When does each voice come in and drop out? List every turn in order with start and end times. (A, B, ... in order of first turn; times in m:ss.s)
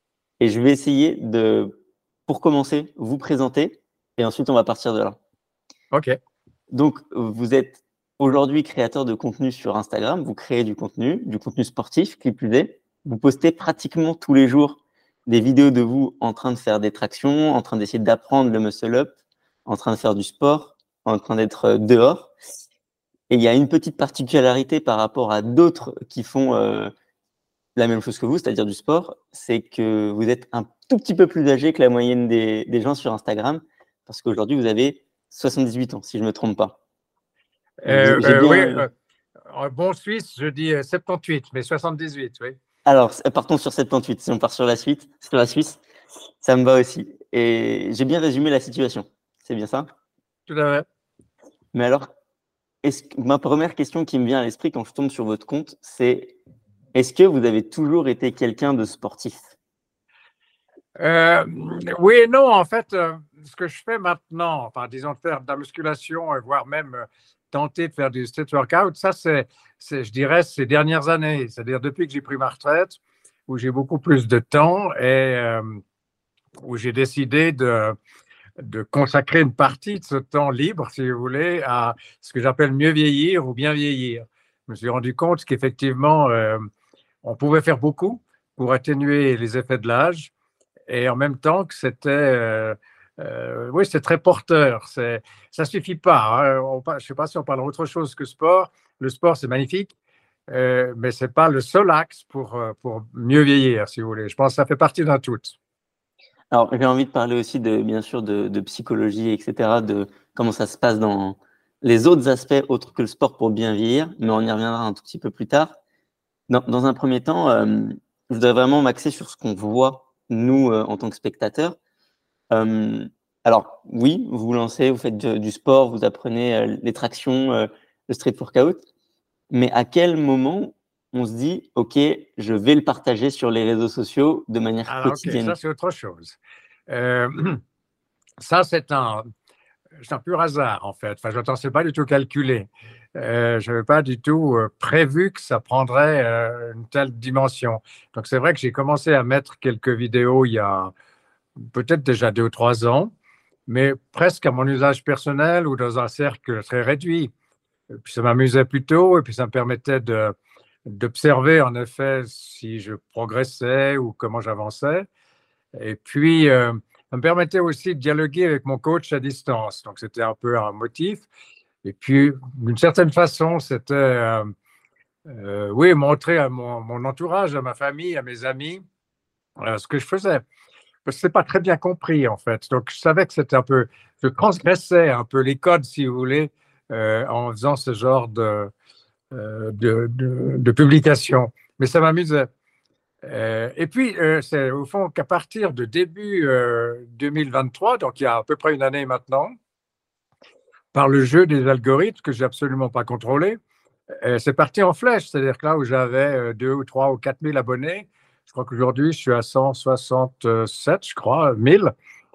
0:00.4-0:01.7 A
0:02.3-0:05.2 A
0:05.9-0:06.2 B
0:06.7-0:19.1 A
0:19.6-0:22.3 A
0:23.3-0:26.9 A
0:27.8-0:36.8 A
0:37.8-0:38.9 B
0:37.8-0:38.9 A
0:39.5-0:42.6 B
0:42.8-0:45.8 A
0:46.4-0:49.9 A
0:50.5-0:50.8 B
0:51.7-0:52.1 A
0:52.8-0:56.4 A
0:56.9-0:59.6 A
1:01.0-1:15.8 B
1:16.6-1:18.0 B
1:18.6-1:26.6 B
1:27.2-1:30.3 B
1:30.9-1:39.9 B
1:40.5-1:45.5 B
1:46.5-1:55.8 A
1:56.5-2:01.8 A
2:02.5-2:08.8 A
2:09.5-2:15.5 A
2:14.9-2:16.4 B
2:16.9-2:17.6 B
2:18.4-2:19.3 B
2:20.0-2:30.9 B
2:31.7-2:33.1 B
2:33.7-2:37.3 B
2:37.9-2:45.1 B
2:45.8-2:51.3 B
2:51.8-2:54.5 B
2:55.3-2:58.8 B
2:59.6-3:00.4 B
3:01.0-3:08.7 B
3:09.3-3:12.5 B
3:13.2-3:19.5 B
3:20.9-3:23.6 B
3:24.1-3:31.9 B